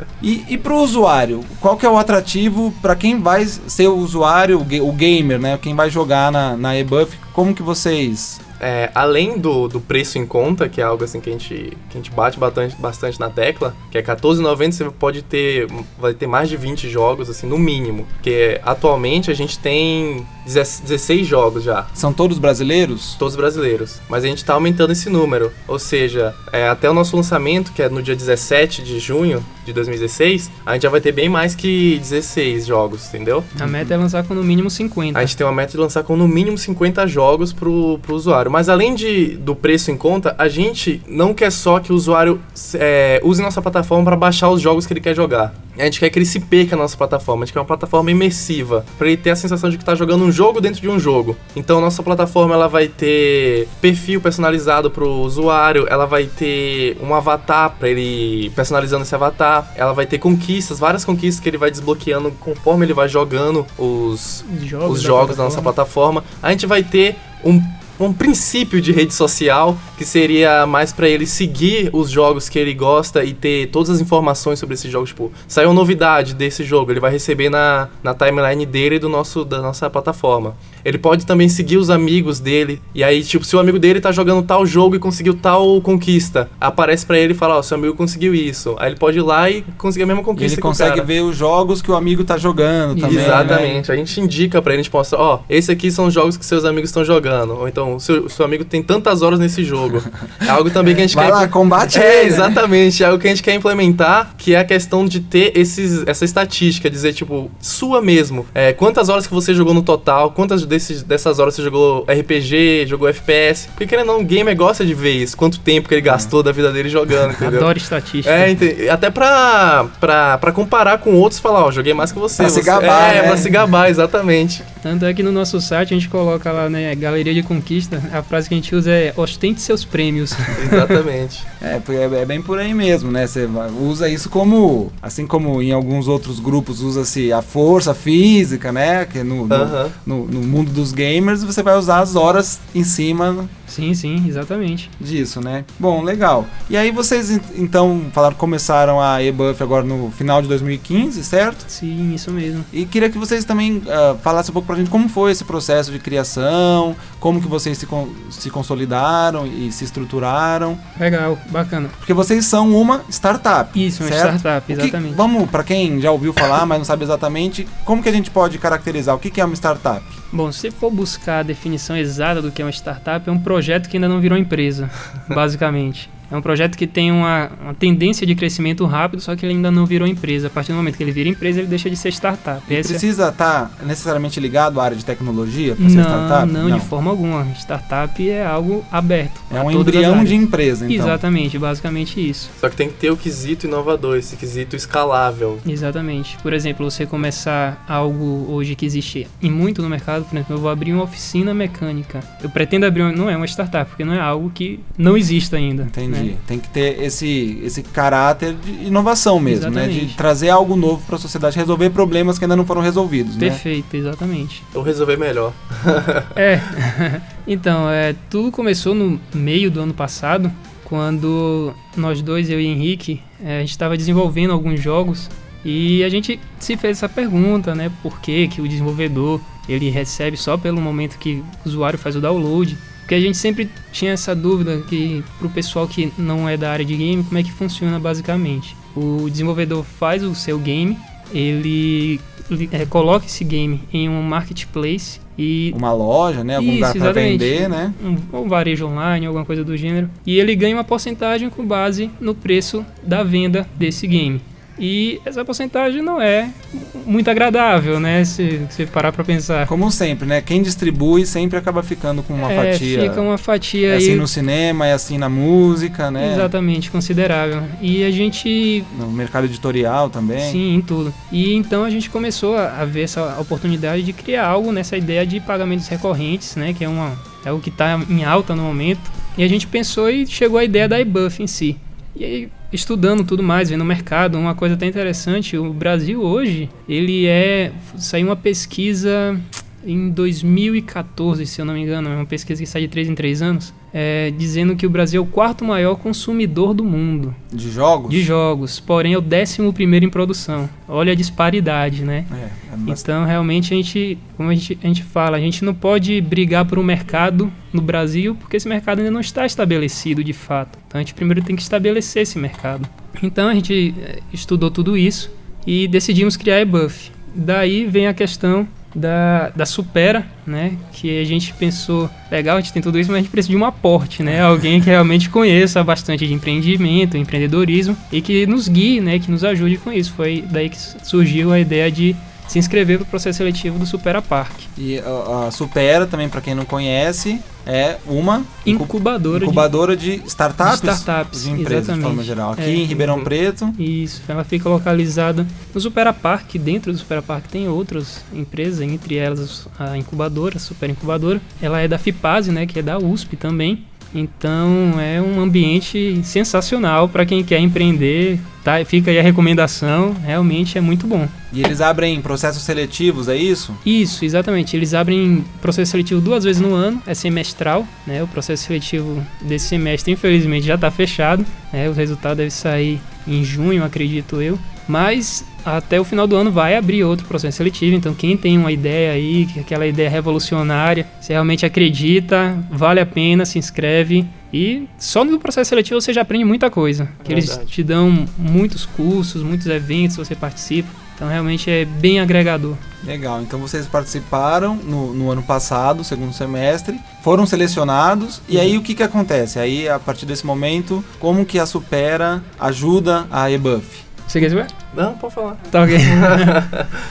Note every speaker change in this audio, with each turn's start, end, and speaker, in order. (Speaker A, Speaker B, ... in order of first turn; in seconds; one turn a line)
Speaker A: 0.2-8.4
Speaker B: 8.6-21.9
Speaker A: 21.9-23.2
Speaker B: 23.2-33.6
Speaker C: 33.6-35.3
Speaker A: 33.6-33.9
Speaker B: 35.1-91.1
Speaker C: 64.5-65.7
Speaker A: 90.4-93.8
Speaker C: 92.9-93.7
Speaker B: 93.0-124.7
Speaker A: 100.5-102.6
Speaker A: 116.0-116.3
Speaker C: 117.4-118.5
Speaker A: 122.4-123.5
Speaker C: 124.8-131.0
Speaker B: 130.6-131.5
Speaker A: 131.6-143.5
Speaker B: 139.5-139.9
Speaker C: 143.7-144.9
Speaker A: 145.0-151.7
Speaker C: 151.7-152.7
Speaker A: 152.7-160.8
Speaker C: 161.0-162.0
Speaker A: 162.0-170.2
Speaker C: 163.8-165.2
Speaker C: 170.3-183.0
Speaker A: 182.7-186.9
Speaker C: 185.8-192.5
Speaker A: 189.5-191.2
Speaker B: 192.6-195.6
Speaker C: 195.6-206.3
Speaker A: 205.8-213.6
Speaker C: 209.5-210.2
Speaker C: 213.4-214.7
Speaker B: 214.7-216.4
Speaker C: 216.4-245.8
Speaker A: 245.7-248.0
Speaker C: 246.6-259.7
Speaker A: 259.7-263.3
Speaker C: 262.4-264.3
Speaker A: 263.9-266.5
Speaker C: 266.2-268.9
Speaker A: 268.9-270.6
Speaker C: 270.4-297.4
Speaker A: 297.5-298.3
Speaker C: 298.1-302.3
Speaker A: 302.3-303.1
Speaker C: 302.9-334.7
Speaker A: 334.8-343.8
Speaker C: 338.6-339.7
Speaker C: 340.6-343.1
Speaker B: 343.0-343.3
Speaker C: 343.8-361.3
Speaker A: 361.5-363.8
Speaker C: 363.8-392.8
Speaker B: 387.2-387.7
Speaker A: 393.0-404.1
Speaker C: 398.5-398.8
Speaker C: 404.3-404.7
Speaker B: 404.9-407.0
Speaker C: 405.7-406.6